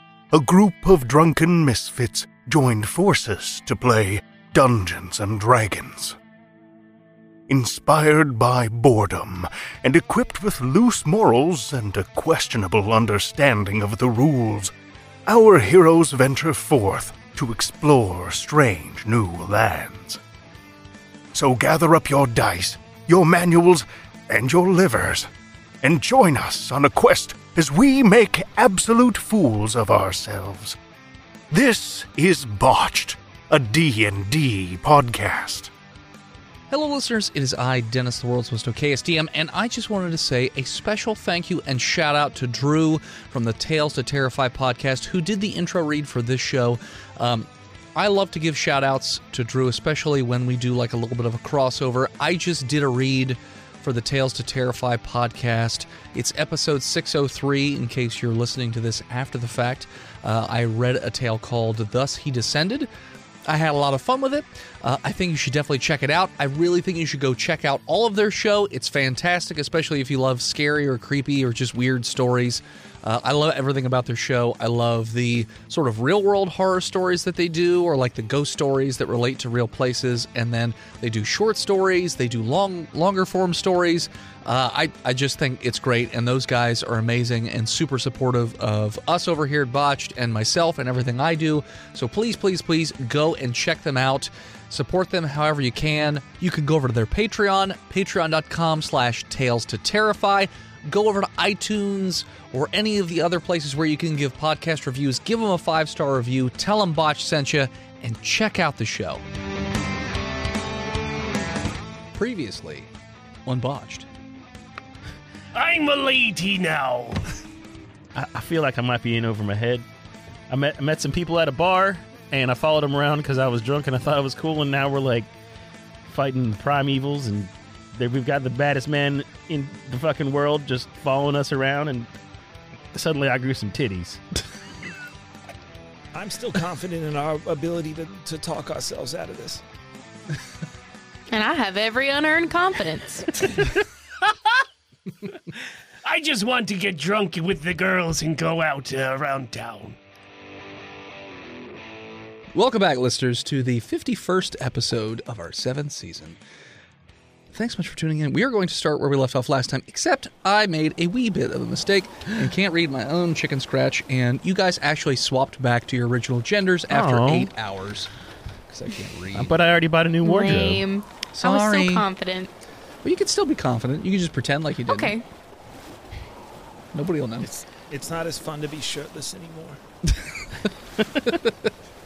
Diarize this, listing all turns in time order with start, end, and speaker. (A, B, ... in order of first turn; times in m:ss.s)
0:00.3-0:06.2 A
0:07.5-0:14.7 A
0:15.2-0:20.2 A
0:21.3-0:25.3 A
0:25.8-0:30.8 A
0:31.5-0:35.7 A
0:36.7-1:02.9 B
1:03.4-1:49.2 B
1:52.1-1:52.9 B
1:53.4-1:54.1 B
1:55.5-1:57.2 C
1:58.1-1:59.8 D
2:00.5-2:05.3 D
2:06.0-2:12.1 D
2:12.9-2:14.2 D
2:16.1-2:19.6 E
2:21.3-2:23.7 F
2:26.0-2:30.0 C
2:32.5-2:36.4 B
2:37.5-2:48.1 B
2:46.9-2:47.5 D
2:48.7-2:49.5 B
2:49.3-2:50.8 D
2:50.2-2:52.5 F
2:51.3-2:52.0 B
2:53.0-2:55.1 B
2:54.9-2:55.2 F
2:56.9-2:57.5 B
2:57.4-2:59.8 E
3:01.1-3:01.7 B